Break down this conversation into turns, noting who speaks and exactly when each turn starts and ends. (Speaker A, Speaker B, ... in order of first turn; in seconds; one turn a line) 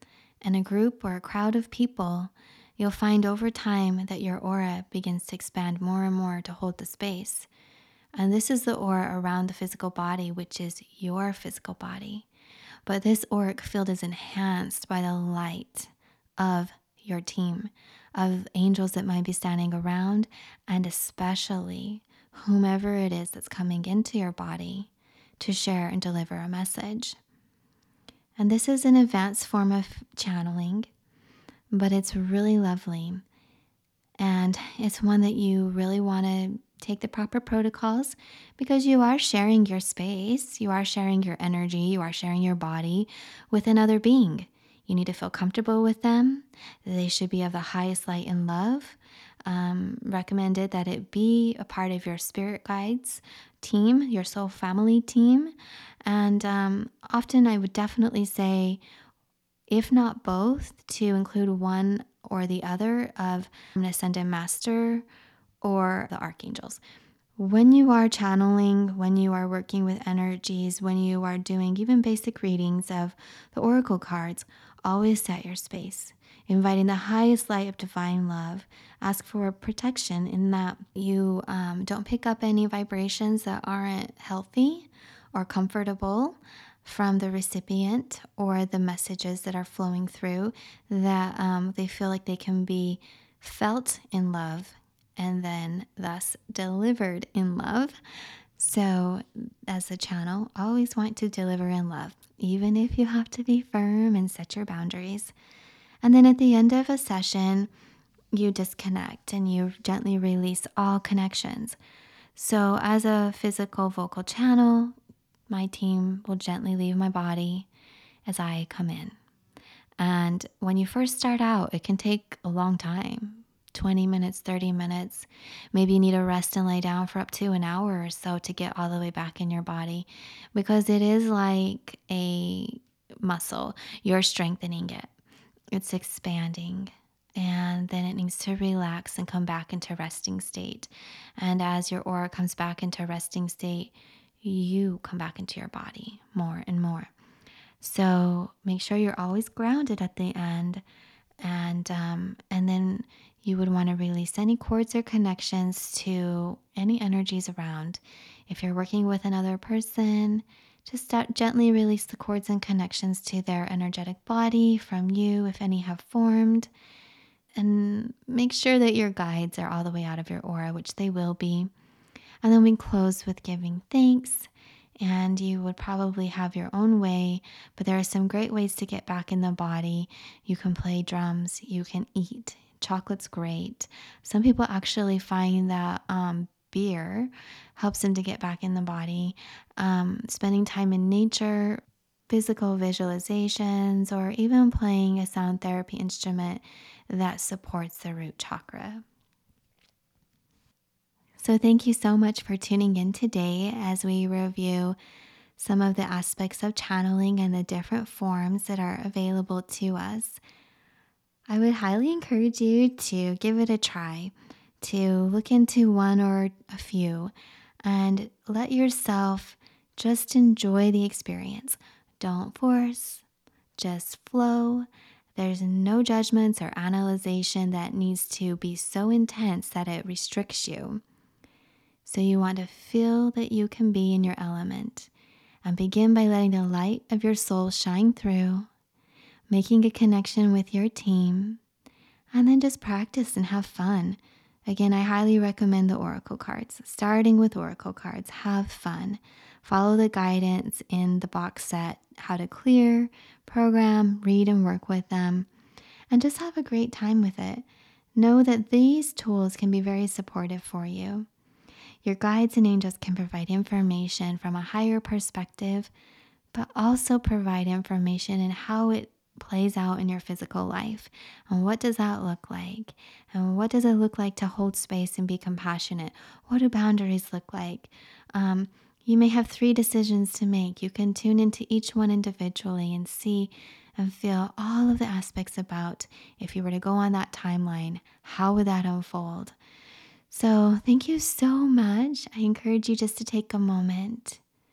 Speaker A: 0.4-7.5
Speaker A: 8.2-12.3
Speaker A: 12.9-27.2
Speaker A: 28.4-30.9
Speaker A: 31.7-33.2
Speaker A: 34.2-55.5
Speaker A: 56.1-58.8
Speaker A: 59.7-65.1
Speaker A: 65.6-66.8
Speaker A: 67.4-98.0
Speaker A: 98.6-105.3
Speaker A: 106.0-107.7
Speaker A: 108.3-111.8
Speaker A: 112.3-115.0
Speaker A: 115.5-117.7
Speaker A: 118.3-119.2
Speaker A: 120.0-135.1
Speaker A: 135.7-147.1
Speaker A: 147.8-150.8
Speaker A: 151.4-166.7
Speaker A: 167.6-171.7
Speaker A: 172.4-174.5
Speaker A: 175.0-199.0
Speaker A: 201.4-205.0
Speaker A: 205.6-210.4
Speaker A: 211.5-217.3
Speaker A: 217.8-223.2
Speaker A: 223.8-231.0
Speaker A: 232.1-235.1
Speaker A: 235.6-238.7
Speaker A: 239.5-241.6
Speaker A: 242.3-255.5
Speaker A: 256.1-257.6
Speaker A: 258.2-261.3
Speaker A: 262.0-265.9
Speaker A: 266.5-289.6
Speaker A: 290.3-294.4